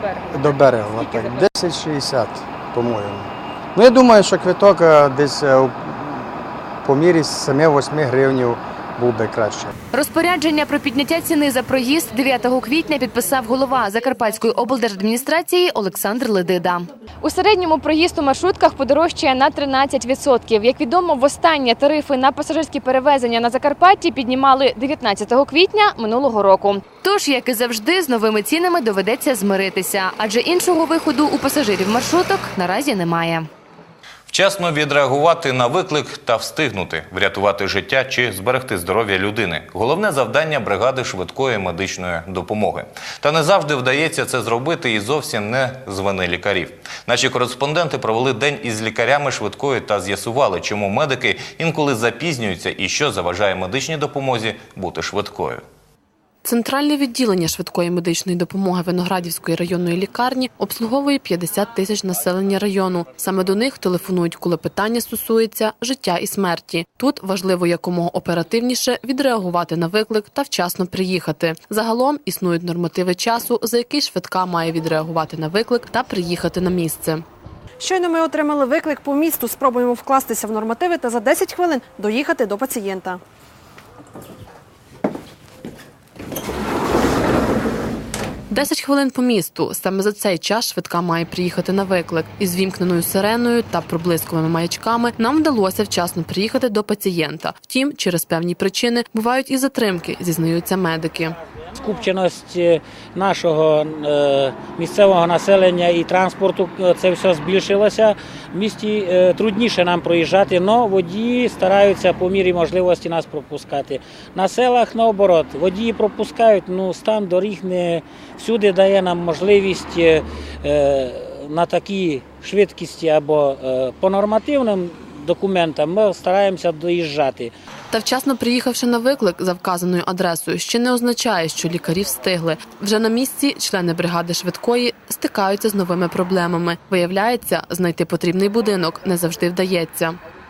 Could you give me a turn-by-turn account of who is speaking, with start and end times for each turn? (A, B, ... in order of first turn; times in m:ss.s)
0:00.3-0:09.7 A
0:09.9-0:33.5 B
0:34.3-0:55.6 C
0:56.4-1:17.2 D
1:17.8-1:23.2 E
1:28.5-1:41.4 D
1:41.7-2:07.5 F
2:07.9-2:20.2 D